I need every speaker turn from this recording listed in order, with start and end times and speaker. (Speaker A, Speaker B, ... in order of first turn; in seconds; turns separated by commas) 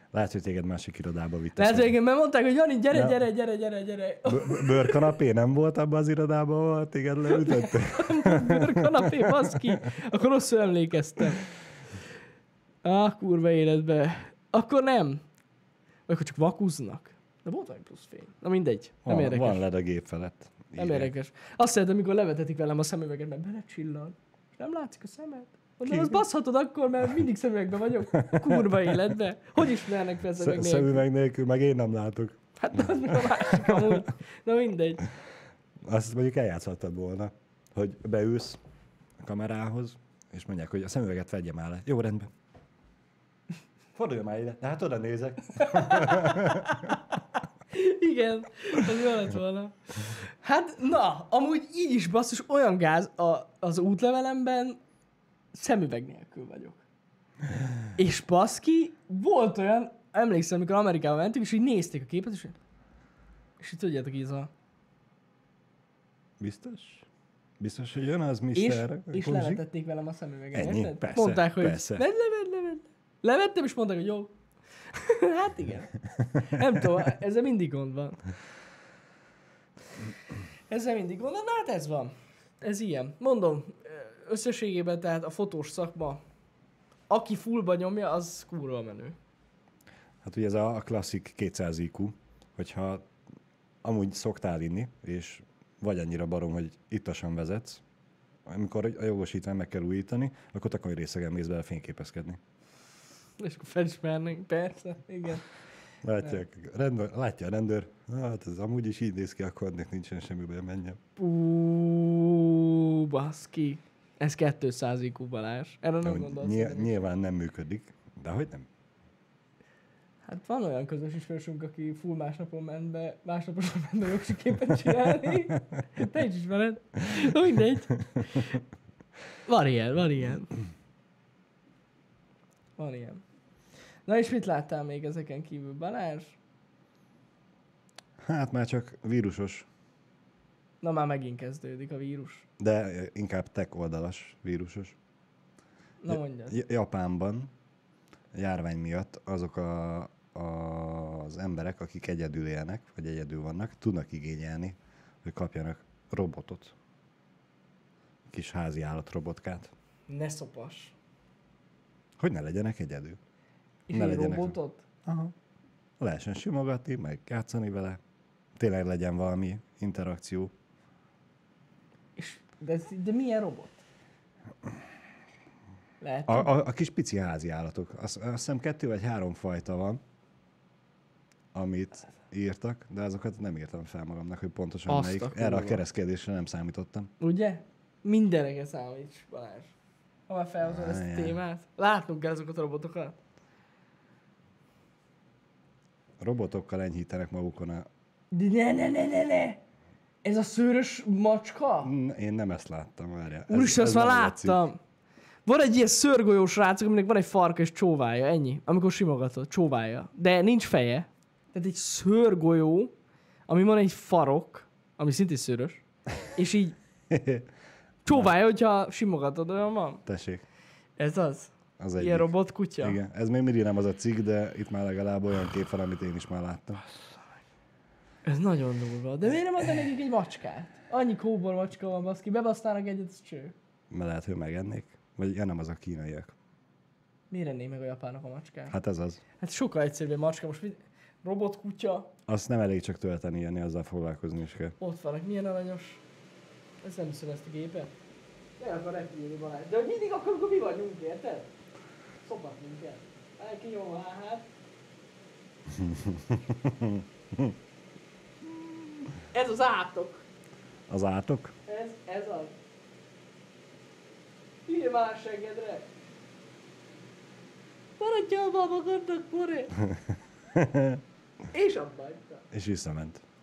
Speaker A: 0.1-1.9, Speaker B: 1.6-5.2, Speaker A: 2.9-3.2, Speaker A: 4.2-9.7, Speaker B: 7.3-11.4, Speaker B: 12.8-15.2, Speaker B: 16.1-19.6, Speaker A: 19.0-21.1, Speaker B: 20.8-31.0, Speaker A: 25.9-26.2, Speaker A: 28.2-29.1, Speaker A: 30.4-34.0, Speaker B: 32.6-35.0, Speaker A: 35.8-38.6, Speaker A: 39.2-42.3, Speaker A: 43.9-46.9, Speaker B: 45.6-47.0, Speaker B: 47.7-54.8, Speaker B: 55.5-56.8, Speaker B: 58.0-62.5, Speaker B: 63.6-64.5, Speaker A: 66.4-67.0, Speaker A: 67.6-69.6, Speaker B: 68.5-74.3, Speaker A: 70.5-72.0, Speaker B: 74.9-78.2, Speaker A: 76.2-76.7, Speaker B: 80.7-86.2, Speaker B: 87.1-89.2, Speaker A: 90.2-93.0, Speaker A: 93.8-97.8, Speaker A: 98.5-102.4, Speaker B: 103.4-105.4, Speaker A: 106.0-111.0, Speaker B: 111.2-117.0, Speaker A: 116.0-118.7, Speaker B: 120.2-128.6, Speaker B: 129.4-130.5, Speaker B: 132.8-133.2, Speaker B: 134.1-136.4, Speaker A: 138.2-139.7, Speaker B: 140.8-142.4, Speaker A: 142.6-144.9, Speaker B: 146.0-146.6, Speaker A: 146.1-147.5, Speaker A: 148.3-156.7, Speaker A: 158.3-159.7, Speaker B: 160.1-160.9, Speaker A: 162.2-163.2, Speaker B: 163.9-164.8, Speaker A: 163.9-165.3, Speaker A: 166.0-168.0, Speaker A: 168.6-170.5, Speaker B: 172.2-173.8, Speaker B: 176.0-176.5, Speaker A: 176.3-180.0, Speaker A: 181.5-187.1, Speaker B: 184.9-185.8, Speaker B: 187.2-189.7, Speaker B: 190.3-193.2, Speaker A: 190.6-191.4, Speaker A: 196.2-197.9, Speaker B: 198.3-199.6, Speaker B: 200.2-201.9, Speaker A: 201.8-204.6, Speaker B: 203.5-204.8, Speaker B: 205.4-212.9, Speaker B: 213.5-216.8, Speaker A: 217.1-217.5, Speaker B: 218.0-220.0, Speaker A: 218.1-218.3, Speaker A: 220.1-220.4, Speaker B: 221.0-223.0, Speaker A: 221.8-226.8, Speaker B: 228.2-233.5, Speaker A: 233.9-236.3, Speaker B: 237.3-238.8, Speaker A: 238.7-239.2, Speaker B: 239.4-242.1, Speaker A: 242.3-244.8, Speaker B: 244.8-246.0, Speaker B: 246.8-247.9, Speaker B: 248.6-251.5, Speaker B: 252.2-254.5, Speaker A: 255.7-257.6, Speaker B: 259.3-260.2, Speaker A: 260.9-261.5, Speaker B: 261.7-262.5, Speaker B: 264.7-265.9, Speaker B: 268.0-269.8, Speaker A: 269.8-271.0, Speaker B: 271.5-272.4, Speaker A: 272.5-273.2